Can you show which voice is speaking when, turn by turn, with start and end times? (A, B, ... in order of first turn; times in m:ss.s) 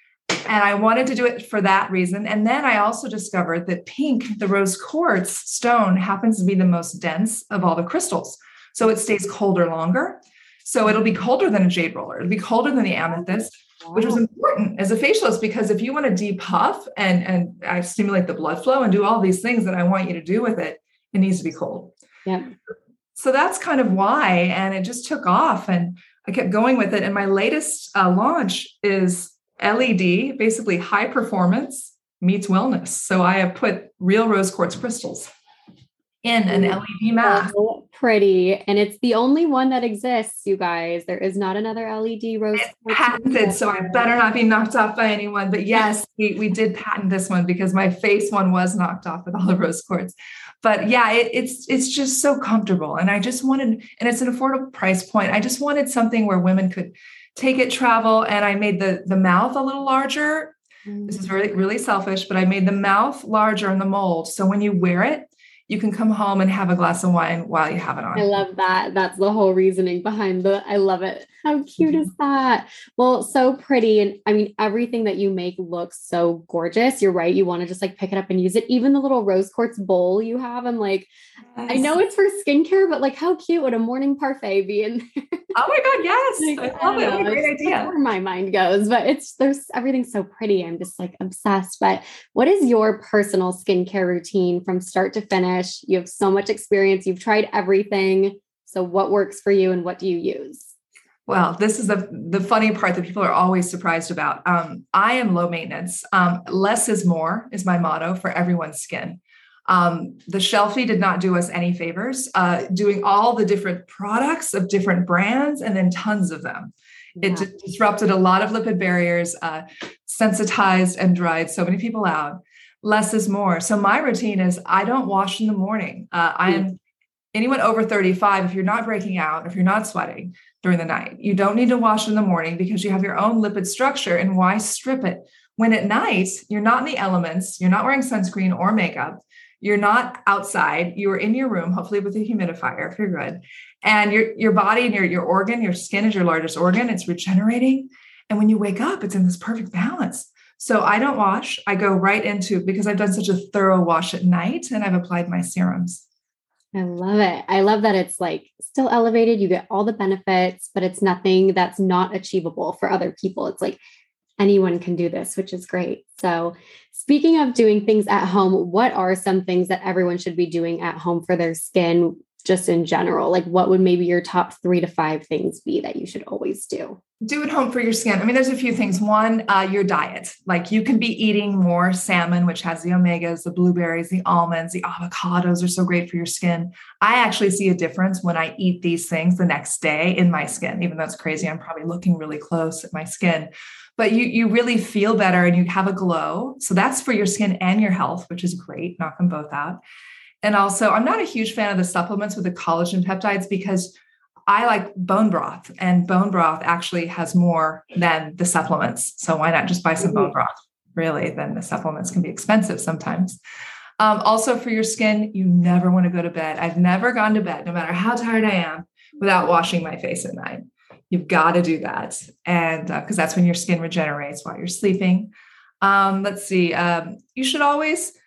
0:00.4-0:22.0 A
0:13.8-0:14.2 B
0:22.2-0:22.5 B
0:23.2-0:35.3 A
0:36.2-0:37.5 A
0:36.5-0:44.1 B
0:42.6-1:00.6 A
1:00.9-1:01.3 B
1:01.1-1:08.3 A
1:08.1-1:21.1 B
1:21.5-1:22.0 A
1:21.7-1:25.4 B
1:25.5-1:27.9 A
1:26.4-1:40.8 B
1:41.3-2:06.8 A
1:57.2-1:57.5 B
2:07.3-2:36.0 A
2:36.7-2:43.8 B
2:44.4-2:57.0 B
2:57.2-3:19.8 A
3:20.4-3:23.9 A
3:24.5-3:33.4 A
3:30.0-3:30.3 B
3:34.0-3:48.1 A